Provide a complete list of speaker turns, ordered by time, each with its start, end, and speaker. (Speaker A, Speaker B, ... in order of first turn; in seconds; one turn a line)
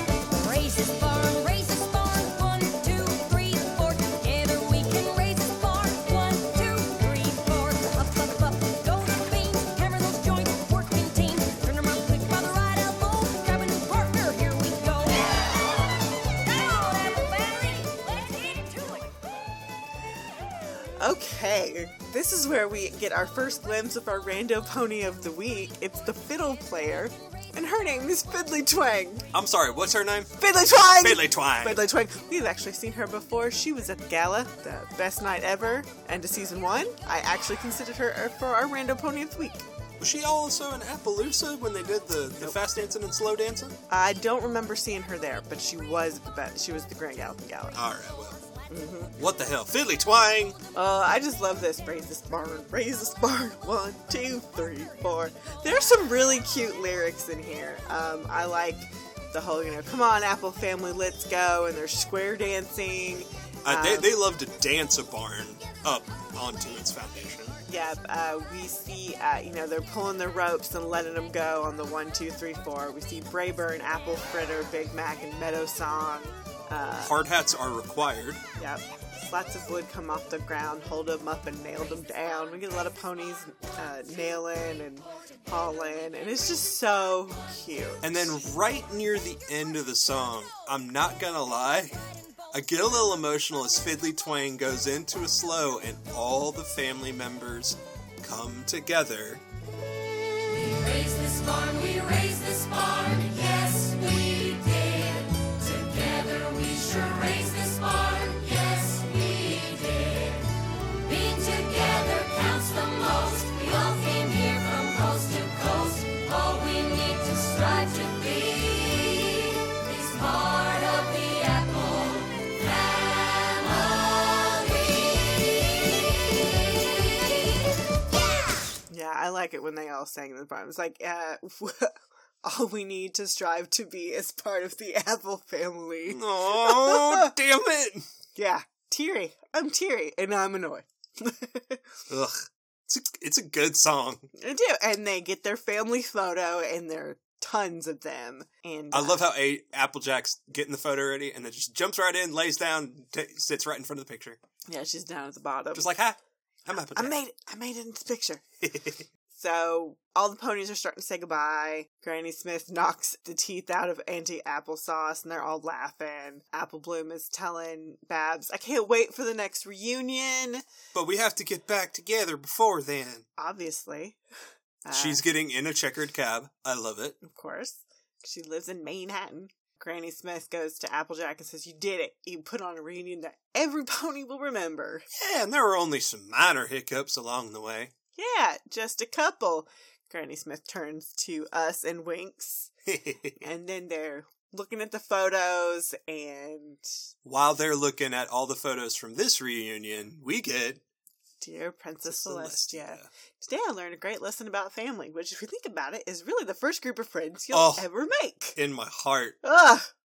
Speaker A: 0.3-19.1
Speaker B: 21.0-29.3
Speaker C: 29.3-31.8
Speaker B: 30.4-39.6
Speaker C: 40.0-43.8
Speaker B: 43.9-47.8
Speaker C: 47.7-48.4
Speaker B: 48.7-49.1
Speaker C: 49.1-50.6
Speaker B: 50.7-64.1
Speaker C: 63.6-67.6
Speaker B: 67.7-77.1
Speaker C: 77.0-78.4
Speaker B: 78.6-88.3
Speaker C: 88.0-92.0
Speaker C: 92.5-99.4
Speaker A: 100.4-126.0
Speaker A: 126.9-127.2
Speaker B: 128.9-137.3
Speaker C: 136.1-138.1
Speaker B: 138.3-141.8
Speaker C: 142.1-144.3
Speaker B: 144.3-149.3
Speaker C: 148.9-154.4
Speaker B: 154.7-155.9
Speaker C: 155.7-157.2
Speaker B: 156.8-158.4
Speaker C: 158.6-159.0
Speaker B: 159.3-170.6
Speaker C: 170.9-173.2
Speaker B: 173.4-174.2
Speaker B: 174.8-175.2
Speaker C: 174.9-177.2
Speaker B: 177.2-185.1
Speaker C: 185.1-187.9
Speaker B: 188.2-192.7
Speaker C: 192.9-193.4
Speaker B: 193.4-196.8
Speaker C: 197.2-200.8
Speaker B: 201.4-208.6
Speaker C: 202.1-203.1
Speaker C: 207.5-207.8
Speaker C: 208.6-209.4
Speaker B: 209.4-209.9